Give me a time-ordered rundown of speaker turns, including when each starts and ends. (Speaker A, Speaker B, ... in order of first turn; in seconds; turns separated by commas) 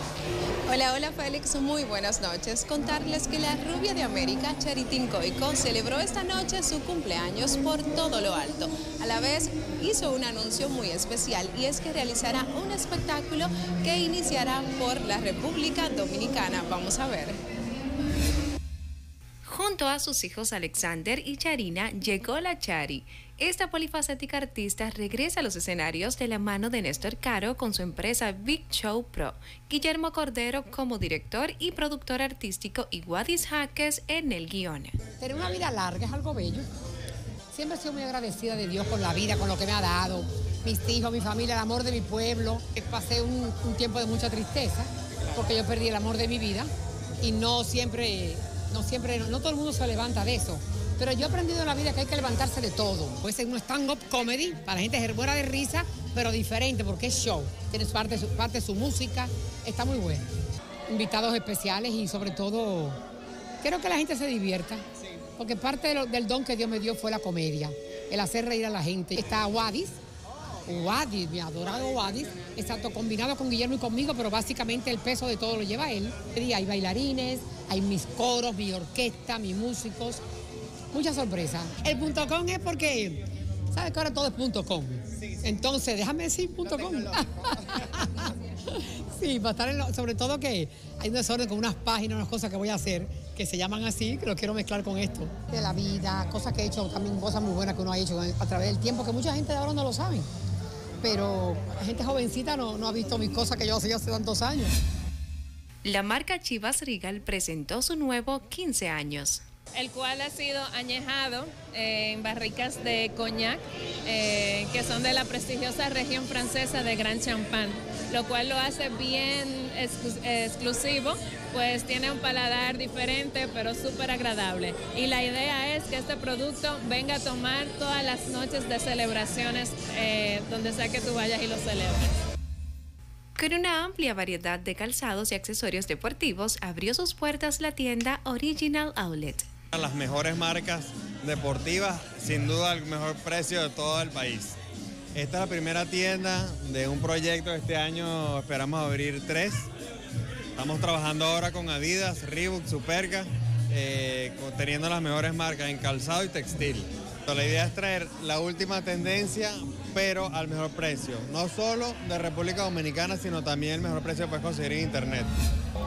Speaker A: 0.7-17.4, Speaker B: 19.4-35.0, Speaker C: 35.2-36.7, Speaker C: 37.5-46.7, Speaker C: 47.2-60.2, Speaker C: 60.9-63.0, Speaker C: 63.6-64.8, Speaker C: 65.4-70.0, Speaker C: 70.7-80.2, Speaker C: 80.9-100.3, Speaker C: 101.0-104.7, Speaker B: 105.8-109.4, Speaker D: 109.7-132.1, Speaker B: 133.4-139.5, Speaker E: 139.7-144.6, Speaker E: 145.1-149.7, Speaker E: 150.6-165.3